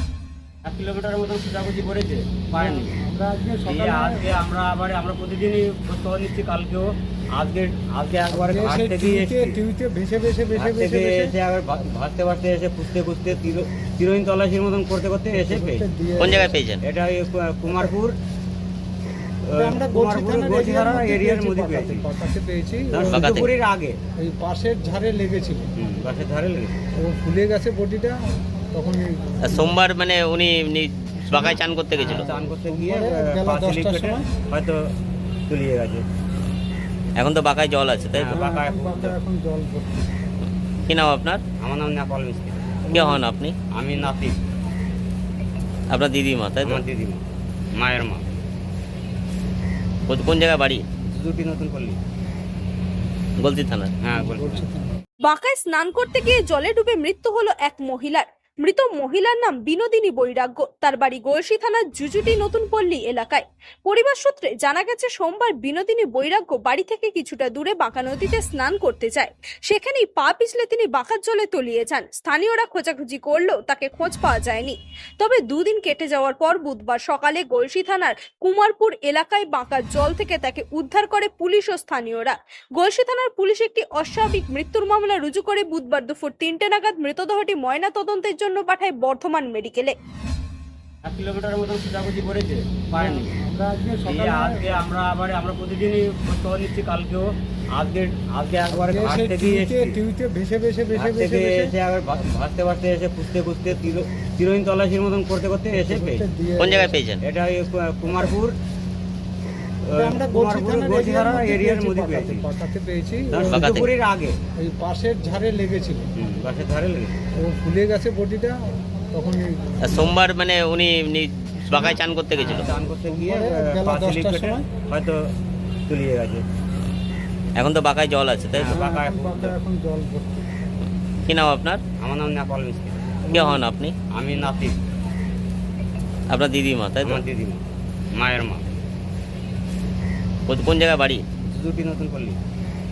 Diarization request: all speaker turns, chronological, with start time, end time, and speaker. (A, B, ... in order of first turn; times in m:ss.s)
0:00.7-0:03.0 A
0:02.5-0:04.4 B
0:03.7-0:09.6 A
0:08.3-0:11.3 B
0:10.5-0:15.9 A
0:15.3-0:16.6 B
0:16.2-0:16.8 C
0:16.8-0:18.2 A
0:19.5-0:22.1 A
0:19.6-0:23.3 B
0:22.9-0:24.0 A
0:23.1-0:23.5 C
0:24.2-0:25.7 B
0:25.8-0:26.8 A
0:27.0-0:29.8 B
0:29.4-0:32.3 C
0:32.0-0:34.8 A
0:32.0-0:34.2 B
0:35.5-0:36.0 A
0:37.2-0:38.4 C
0:38.2-0:39.2 A
0:38.3-0:40.1 B
0:40.9-0:41.4 C
0:41.6-0:42.9 A
0:42.9-0:43.2 B
0:42.9-0:43.5 C
0:43.8-0:44.4 A
0:45.9-0:46.8 C
0:46.6-0:47.2 A
0:47.8-0:48.2 A
0:50.1-0:50.8 C
0:51.1-0:52.0 A
0:53.4-0:53.9 C
0:54.0-0:54.7 A
0:54.1-0:55.0 B
0:55.2-1:29.9 D
1:31.0-1:33.4 A
1:32.9-1:34.9 B
1:34.0-1:40.0 A
1:38.7-1:41.7 B
1:40.9-1:46.3 A
1:45.7-1:47.0 B
1:46.6-1:47.2 C
1:47.2-1:48.6 A
1:49.9-1:52.5 A
1:49.9-1:53.7 B
1:53.3-1:54.4 A
1:53.5-1:53.9 C
1:54.6-1:56.1 B
1:56.2-1:57.1 A
1:57.4-2:00.2 B
1:59.8-2:02.7 C
2:01.9-2:05.2 A
2:02.4-2:04.6 B
2:05.9-2:06.4 A
2:07.6-2:08.8 C
2:08.6-2:09.6 A
2:08.7-2:10.5 B
2:11.3-2:11.8 C
2:12.0-2:13.2 A
2:13.3-2:13.6 B
2:13.3-2:13.9 C
2:14.2-2:14.8 A
2:16.3-2:17.2 C
2:17.0-2:17.6 A
2:18.2-2:18.6 A
2:20.5-2:21.2 C
2:21.5-2:22.4 A